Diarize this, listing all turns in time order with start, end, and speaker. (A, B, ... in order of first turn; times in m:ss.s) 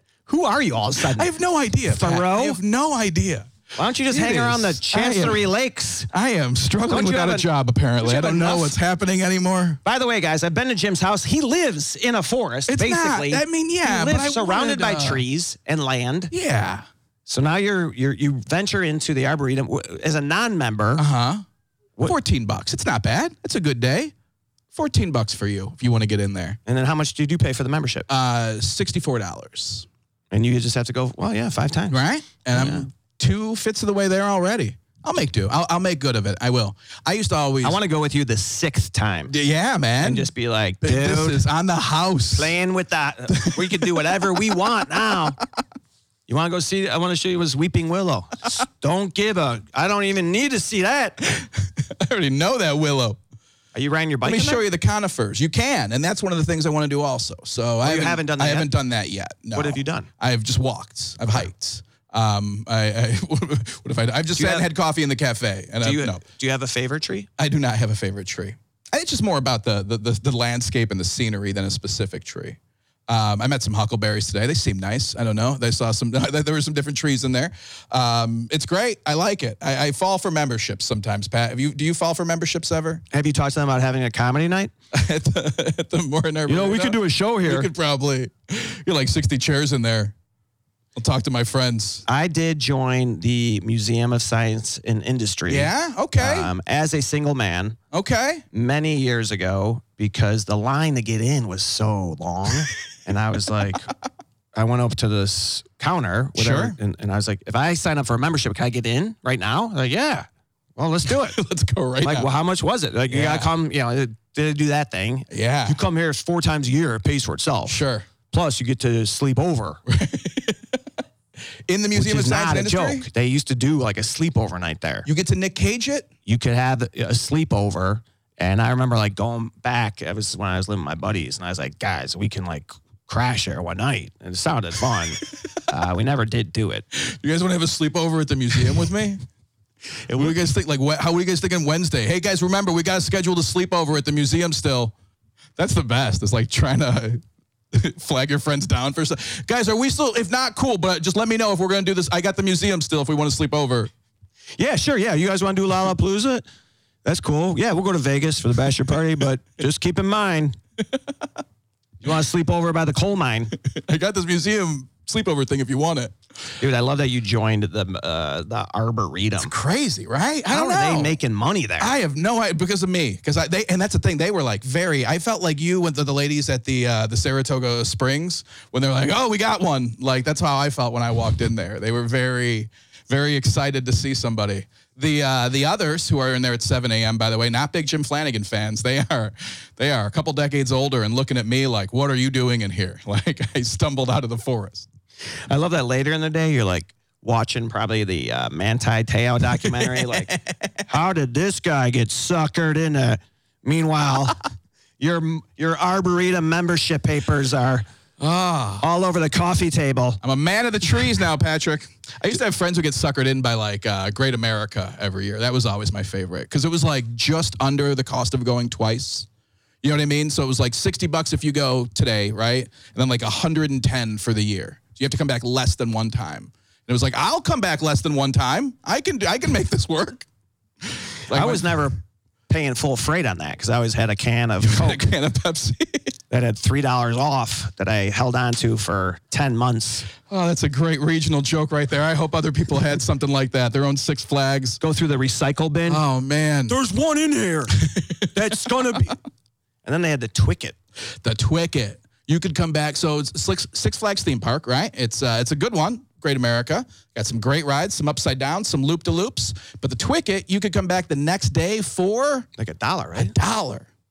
0:00.3-0:01.3 A
0:01.1-0:03.5 B
0:01.9-0:02.6 A
0:03.8-0:06.1 A
0:04.1-0:05.4 B
0:06.1-0:09.8 B
0:06.9-0:07.5 A
0:08.0-0:08.8 A
0:09.8-0:16.3 A
0:12.7-0:15.2 B
0:16.3-0:16.8 B
0:17.3-0:21.1 A
0:21.0-0:21.4 B
0:22.0-0:24.1 B
0:24.7-0:26.6 B
0:26.7-0:28.1 A
0:28.1-0:29.9 B
0:30.3-0:32.0 A
0:31.9-0:37.8 B
0:32.6-0:32.9 A
0:37.6-0:39.3 A
0:39.3-0:42.6 B
0:40.0-0:41.4 A
0:42.3-0:45.4 A
0:43.3-0:44.2 B
0:46.3-0:51.2 A
0:51.2-0:53.2 B
0:53.7-0:54.6 A
0:54.2-1:06.2 B
0:57.8-0:58.7 A
0:59.5-1:00.1 A
1:04.4-1:04.7 A
1:05.8-1:07.3 A
1:07.4-1:23.0 B
1:23.1-1:24.7 A
1:24.9-1:30.1 B
1:26.5-1:27.7 A
1:31.0-1:32.0 B
1:32.1-1:37.8 A
1:35.5-1:36.5 B
1:37.9-1:38.4 B
1:38.5-1:43.9 A
1:44.6-1:51.4 A
1:46.4-1:46.8 B
1:51.1-1:52.3 B
1:52.0-1:59.8 A
1:53.1-1:53.5 B
1:55.3-1:55.8 B
1:57.7-1:58.1 B
1:59.9-2:00.8 B
2:01.7-2:03.1 B
2:01.9-2:05.1 A
2:05.1-2:06.1 B
2:06.3-2:16.8 A
2:16.9-2:19.2 B
2:20.1-2:20.4 A
2:20.1-2:24.9 B
2:25.6-2:27.2 B
2:27.7-2:33.9 B
2:34.6-2:36.4 A
2:37.0-2:40.6 A
2:42.0-2:43.5 A
2:43.6-2:46.2 B
2:46.6-2:49.5 A
2:49.4-2:51.2 B
2:50.5-2:51.9 A
2:51.8-3:14.9 B
3:15.5-3:24.4 A
3:19.6-3:20.5 B
3:25.0-3:27.8 A
3:28.2-3:28.8 B
3:28.8-3:30.2 A
3:30.2-3:39.3 B
3:39.8-3:50.3 B
3:50.8-3:51.8 B
3:51.3-3:52.0 A
3:52.5-3:55.1 A
3:54.6-3:56.2 B
3:56.3-4:00.1 A
4:00.3-4:04.8 B
4:04.8-4:06.0 A
4:05.9-4:06.8 B
4:06.7-4:09.2 A
4:07.7-4:09.1 B
4:09.8-4:10.8 A
4:11.2-4:22.5 B
4:22.6-4:23.3 A
4:23.2-4:23.9 B